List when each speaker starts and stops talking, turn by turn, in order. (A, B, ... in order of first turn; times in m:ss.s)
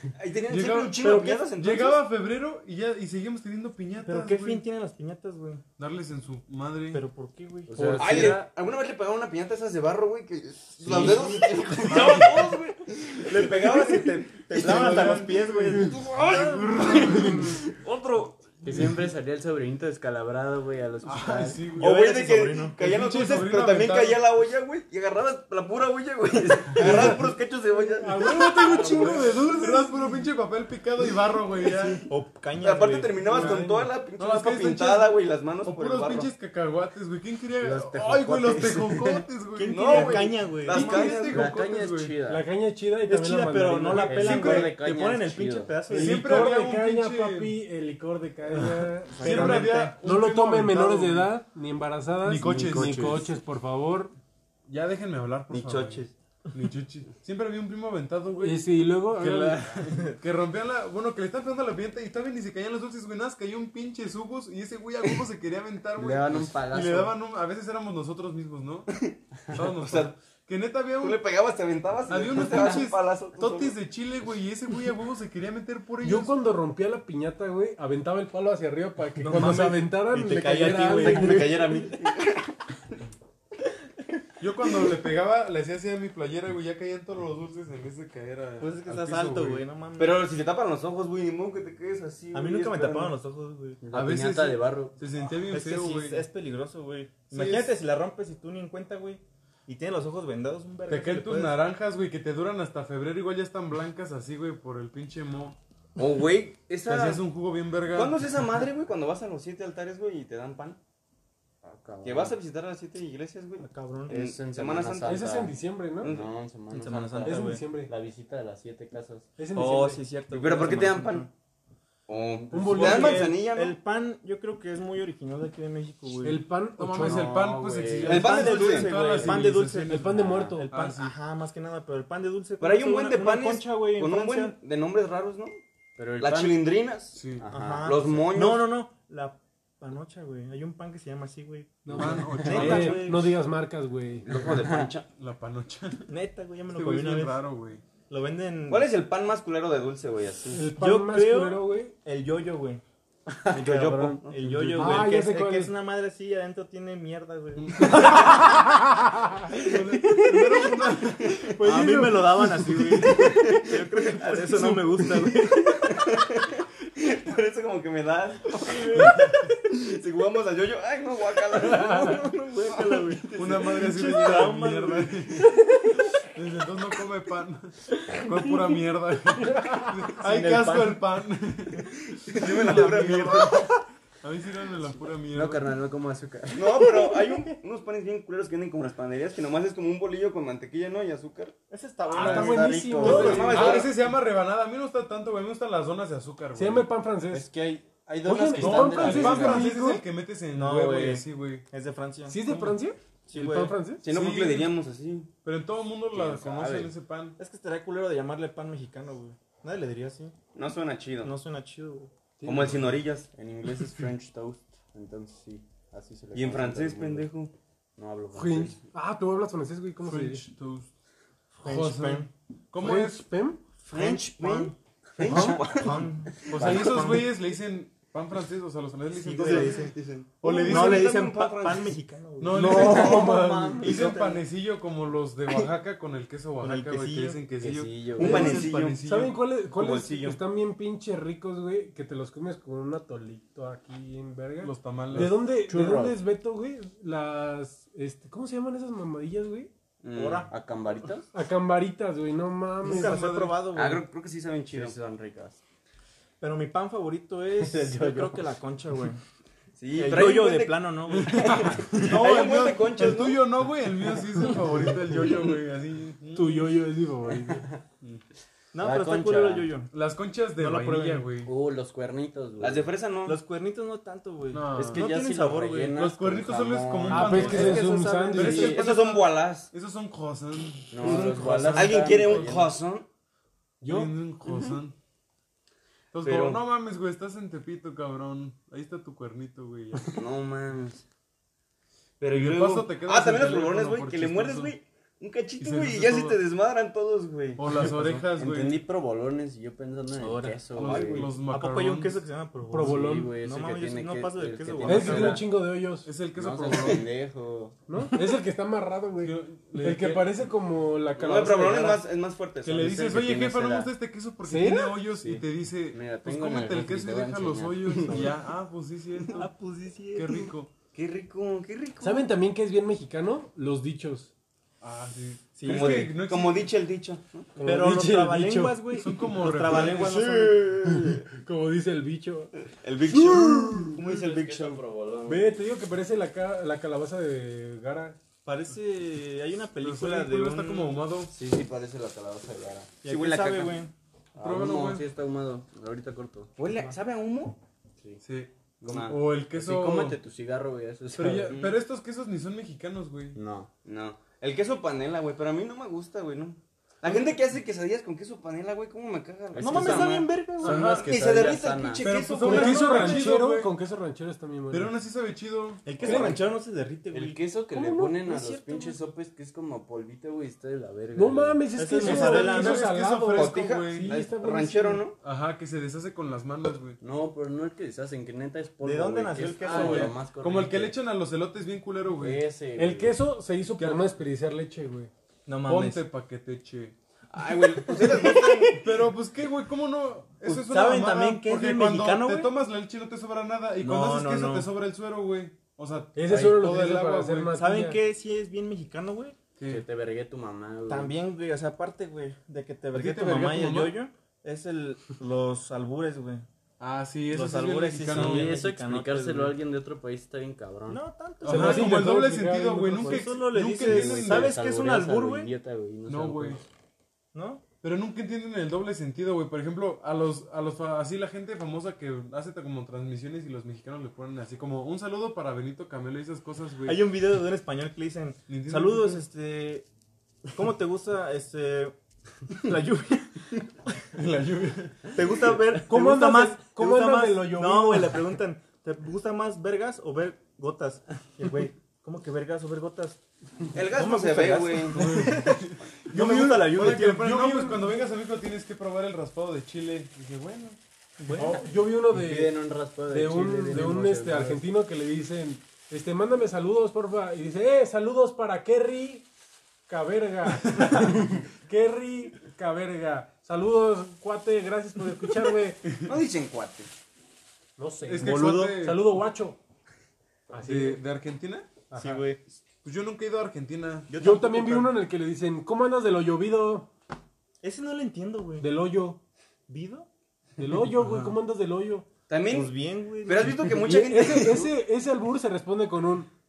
0:00.2-0:02.0 A
0:00.5-0:04.6 B
0:01.0-0:01.5 C
0:04.0-0:05.6 C
0:05.8-0:07.0 B
0:06.9-0:08.0 C
0:07.7-0:08.4 D
0:07.7-0:08.4 E
0:08.0-0:18.6 A
0:10.8-0:12.2 D
0:11.9-0:12.4 C
0:11.9-0:12.3 B
0:13.3-0:16.8 C
0:14.6-0:17.5 B
0:18.6-0:21.7 D
0:18.7-0:19.0 B
0:21.0-0:22.0 B
0:21.8-0:22.8 C
0:21.8-0:29.2 A
0:22.8-0:24.2 B
0:26.8-0:29.9 E
0:28.7-0:30.1 C
0:28.8-0:32.0 B
0:32.0-0:33.6 C
0:32.6-0:36.3 A
0:33.2-0:33.9 E
0:34.2-0:42.1 B
0:37.6-0:39.2 D
0:39.6-0:41.2 C
0:39.7-0:41.5 A
0:41.2-0:42.5 D
0:42.2-0:44.6 E
0:43.0-0:46.3 C
0:43.9-0:45.8 D
0:44.2-0:44.7 B
0:45.9-0:54.1 E
0:45.9-0:47.6 B
0:48.6-0:51.3 B
0:49.1-0:50.0 C
0:52.2-0:53.2 B
0:52.4-0:53.3 D
0:54.7-1:08.9 B
0:55.5-0:56.1 A
0:58.4-0:59.8 E
1:06.0-1:07.2 D
1:08.9-1:10.1 A
1:09.5-1:11.2 B
1:11.0-1:13.7 A
1:12.1-1:16.4 B
1:16.0-1:21.7 E
1:19.2-1:21.9 C
1:19.3-1:19.6 B
1:20.9-1:22.6 A
1:24.4-1:29.6 B
1:28.6-1:30.3 C
1:30.0-1:33.2 A
1:32.3-1:33.8 C
1:33.8-1:35.0 D
1:33.9-1:36.2 B
1:35.5-1:41.6 C
1:37.3-1:37.7 B
1:40.9-1:45.6 B
1:46.0-1:47.2 A
1:46.8-1:48.2 B
1:47.9-1:50.8 A
1:51.6-1:52.4 D
1:52.0-1:55.3 A
1:53.6-1:54.1 C
1:54.1-1:59.3 D
1:55.0-1:56.1 E
1:56.0-1:56.3 A
1:56.7-1:57.6 C
1:57.2-1:57.9 E
1:59.4-2:00.0 E
1:59.5-2:01.3 C
2:00.3-2:01.3 A
2:02.1-2:03.8 A
2:02.5-2:02.8 D
2:02.5-2:03.3 E
2:02.7-2:06.4 C
2:06.2-2:07.3 E
2:06.8-2:10.1 B
2:07.0-2:08.4 D
2:08.0-2:14.5 C
2:08.0-2:09.3 A
2:09.2-2:09.6 D
2:09.9-2:10.7 E
2:10.1-2:10.6 D
2:10.7-2:11.2 B
2:12.6-2:15.6 A
2:16.0-2:16.7 D
2:16.2-2:17.3 A
2:17.1-2:17.4 B
2:17.3-2:18.3 D
2:17.5-2:23.3 C
2:17.8-2:18.8 A
2:21.8-2:24.4 E
2:21.9-2:23.1 B
2:24.2-2:25.1 A
2:24.4-2:24.9 D
2:25.1-2:26.1 B
2:26.1-2:27.4 C
2:26.7-2:27.8 B
2:28.1-2:28.9 C
2:28.7-2:30.7 A
2:30.5-2:31.9 E
2:30.7-2:32.8 C
2:33.3-2:35.1 D
2:33.5-2:38.2 C
2:33.6-2:34.3 A
2:34.8-2:35.7 E
2:37.6-2:38.4 B
2:37.9-2:39.4 E
2:39.6-2:41.5 B
2:41.2-2:41.6 A
2:41.6-2:43.1 E
2:41.6-2:45.9 C
2:44.2-2:44.8 A
2:45.7-2:53.6 A
2:48.6-2:49.3 C
2:49.0-2:49.3 B
2:51.5-2:55.3 C
2:53.4-2:55.5 B
2:56.3-3:03.7 B
2:59.5-2:59.9 E
3:00.2-3:01.0 C
3:02.2-3:03.8 A
3:04.2-3:05.6 B
3:05.3-3:07.2 D
3:06.5-3:11.6 A
3:11.7-3:13.9 C
3:12.1-3:13.8 E
3:12.1-3:14.0 A
3:13.0-3:16.9 B
3:16.5-3:17.5 E
3:17.3-3:19.6 D
3:18.2-3:20.0 E
3:18.6-3:21.6 B
3:20.5-3:22.4 C
3:22.3-3:24.0 E
3:22.4-3:22.8 B
3:23.3-3:23.8 C
3:24.0-3:25.3 A
3:24.1-3:24.7 B
3:25.4-3:27.4 B
3:26.1-3:26.9 D
3:27.4-3:30.4 C
3:30.5-3:31.3 A
3:31.2-3:32.1 C
3:32.4-3:33.0 E
3:32.4-3:33.3 A
3:33.3-3:37.3 D
3:36.3-3:37.5 A
3:38.0-3:38.8 D
3:38.3-3:40.4 E
3:40.0-3:40.9 B
3:41.6-3:42.3 C
3:41.6-3:43.2 B
3:42.8-3:43.6 E
3:43.8-3:47.3 C
3:43.9-3:46.8 A
3:45.2-3:45.6 E
3:46.5-3:49.9 B
3:46.6-3:46.9 D
3:49.1-3:50.0 C
3:49.4-3:52.0 A
3:50.4-3:51.2 B
3:50.6-3:54.4 C
3:52.4-3:59.4 B
3:52.5-3:54.0 E
3:56.6-3:57.4 C
3:57.6-3:58.5 D
3:58.2-3:59.0 A
3:58.2-3:58.9 C
3:58.2-4:09.7 E
3:59.7-4:00.4 A
4:04.6-4:05.4 B
4:05.1-4:06.2 D
4:10.0-4:10.5 A
4:10.1-4:10.5 C
4:10.5-4:11.3 D
4:11.3-4:13.3 E
4:12.8-4:14.0 C
4:12.9-4:13.5 B
4:13.7-4:15.0 A
4:14.7-4:15.6 D
4:16.4-4:19.2 C
4:17.6-4:18.4 D
4:19.8-4:23.4 A
4:19.9-4:22.4 C
4:21.3-4:26.8 B
4:26.3-4:27.7 E
4:27.5-4:27.8 D
4:28.7-4:29.9 C
4:28.8-4:29.7 D
4:29.9-4:31.5 B
4:30.6-4:31.2 C
4:31.4-4:32.9 D
4:32.6-4:33.4 A
4:33.2-4:35.9 C
4:34.5-4:35.1 B
4:34.7-4:37.8 D
4:35.9-4:42.5 B
4:37.1-4:38.8 E
4:37.4-4:38.8 C
4:37.5-4:39.7 A
4:40.9-4:42.7 D
4:41.0-4:41.9 E
4:41.7-4:43.1 A
4:43.8-4:44.1 E
4:43.8-4:45.0 B
4:44.5-4:44.8 A
4:46.1-4:50.1 B
4:46.2-4:46.6 A
4:50.1-4:51.0 A
4:52.2-4:57.9 A
4:52.3-4:54.7 B
4:55.6-4:56.4 B
4:57.6-4:58.8 B
4:57.7-5:01.3 D
5:00.2-5:00.6 E
5:00.7-5:02.2 B
5:00.8-5:05.4 C
5:02.7-5:03.3 E
5:02.8-5:05.4 D
5:04.8-5:06.1 E
5:06.0-5:07.0 B
5:06.3-5:07.8 D
5:07.9-5:12.0 E
5:09.2-5:10.4 B
5:11.1-5:12.9 A
5:12.6-5:19.5 B
5:12.7-5:13.9 D
5:14.4-5:15.0 E
5:15.2-5:18.3 D
5:19.3-5:20.5 C
5:20.1-5:20.7 B
5:20.9-5:22.3 A
5:22.0-5:24.3 E
5:24.8-5:26.7 B
5:25.6-5:26.1 C
5:25.6-5:27.6 A
5:27.6-5:29.0 E
5:27.6-5:30.8 C
5:29.0-5:30.1 B
5:29.7-5:31.3 A
5:31.3-5:34.0 E
5:32.8-5:34.8 A
5:34.0-5:35.6 D
5:35.2-5:38.2 E
5:38.4-5:41.0 C
5:39.8-5:41.3 B
5:41.3-5:42.9 D
5:43.0-5:43.9 C
5:43.1-5:43.8 A
5:44.4-5:46.5 D
5:44.4-5:45.0 B
5:46.6-5:47.6 A
5:48.2-5:50.2 B
5:48.8-5:51.6 D
5:48.8-5:49.2 A
5:51.2-5:53.4 B
5:51.5-5:51.8 A
5:53.3-5:53.7 D
5:53.8-6:03.0 A
5:59.5-6:02.1 D
5:59.6-6:01.1 C
6:00.6-6:01.1 B
6:02.0-6:03.7 B
6:02.4-6:05.0 E
6:02.5-6:03.3 C
6:04.7-6:06.3 B
6:05.8-6:07.4 C
6:06.0-6:06.4 E
6:07.1-6:11.6 D
6:07.7-6:09.0 E
6:11.1-6:15.1 E
6:11.8-6:12.9 C
6:12.0-6:14.1 B
6:13.3-6:15.2 A
6:15.2-6:17.0 B
6:17.0-6:21.0 D
6:18.8-6:20.2 C
6:19.7-6:22.4 B
6:22.2-6:23.2 D
6:22.8-6:25.1 E
6:23.8-6:24.1 B
6:25.4-6:26.0 C
6:25.6-6:26.9 B
6:27.3-6:28.8 A
6:27.9-6:28.7 C
6:28.7-6:37.6 B
6:30.4-6:32.5 C
6:33.8-6:34.7 C
6:36.1-6:38.0 E
6:37.6-6:39.4 C
6:39.6-6:39.8 B
6:39.7-6:41.1 D
6:40.9-6:46.4 C
6:42.9-6:44.0 B
6:46.8-6:48.5 B
6:47.3-6:49.6 C
6:48.1-6:51.0 D
6:50.9-6:52.2 C
6:51.4-6:54.5 B
6:51.4-6:53.4 E
6:53.0-6:55.5 C
6:53.7-6:56.6 D
6:56.1-6:56.6 B
6:57.3-6:57.6 C
6:57.8-7:07.0 B
7:06.8-7:09.9 C
7:08.5-7:09.2 B
7:10.5-7:11.9 C
7:12.5-7:13.7 C
7:14.1-7:15.1 B
7:15.1-7:23.2 C
7:15.8-7:18.2 E
7:23.7-7:25.1 A
7:23.8-7:27.8 C
7:24.9-7:30.8 B
7:31.2-7:31.6 C
7:31.3-7:39.2 E
7:32.1-7:34.7 D
7:39.9-7:45.8 E
7:40.7-7:40.9 B
7:46.0-7:46.9 A
7:47.8-7:49.6 E
7:48.0-7:49.2 B
7:48.2-7:48.7 C
7:50.5-7:51.0 E
7:50.6-7:51.7 B
7:51.9-7:52.2 E
7:52.0-7:52.4 C
7:52.8-7:54.1 B
7:54.1-7:54.9 C
7:54.2-7:56.9 E
7:57.6-7:58.7 C
7:58.6-7:59.2 E
7:59.7-8:00.1 C
8:00.6-8:02.0 E
8:00.9-8:01.3 B
8:02.3-8:04.7 A
8:02.4-8:03.7 C
8:03.6-8:06.3 E